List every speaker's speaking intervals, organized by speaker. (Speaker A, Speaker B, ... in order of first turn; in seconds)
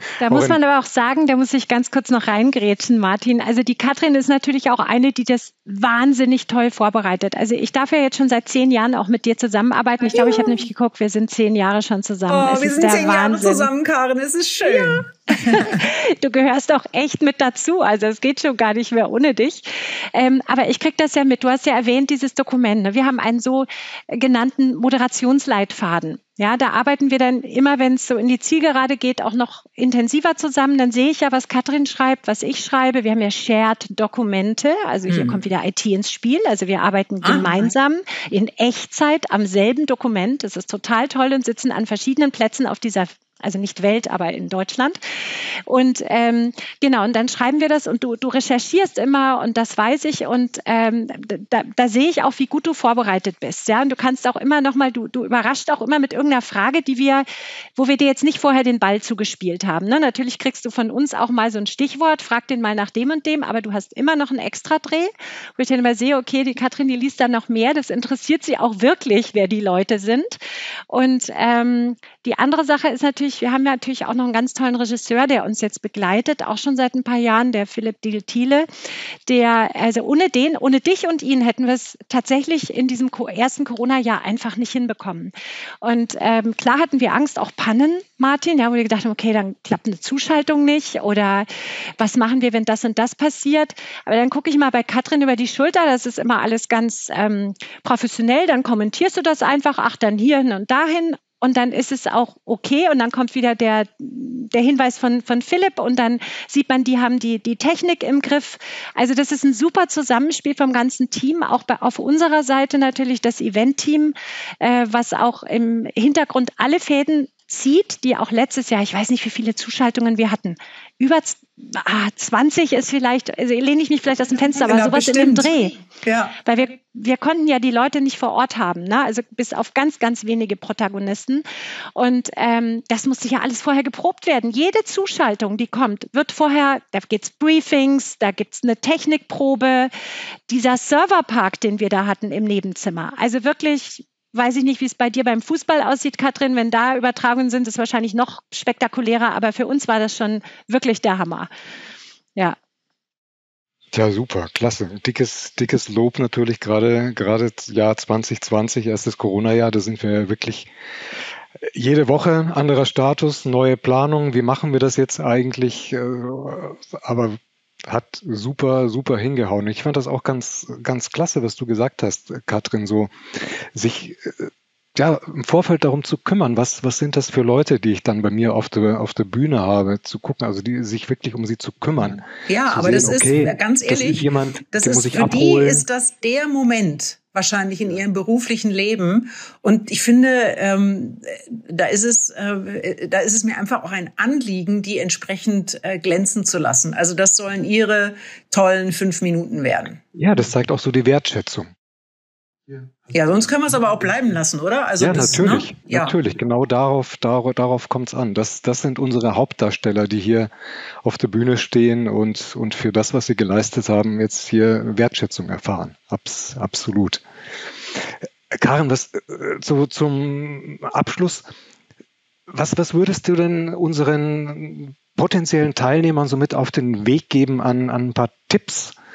Speaker A: 0.2-13.7, 14.6-45.0, 45.7-57.2, 57.8-70.4, 70.9-78.7, 79.3-125.8, 126.4-131.4, 131.9-139.9, 140.5-151.5
Speaker B: 10.1-10.7, 12.3-15.8, 35.1-35.4, 37.2-37.7, 124.5-126.4, 182.5-200.0, 203.1-206.2
Speaker C: 153.9-160.7, 161.6-185.8, 200.1-201.7, 205.0-210.5, 211.0-217.2, 217.9-221.4, 222.5-228.9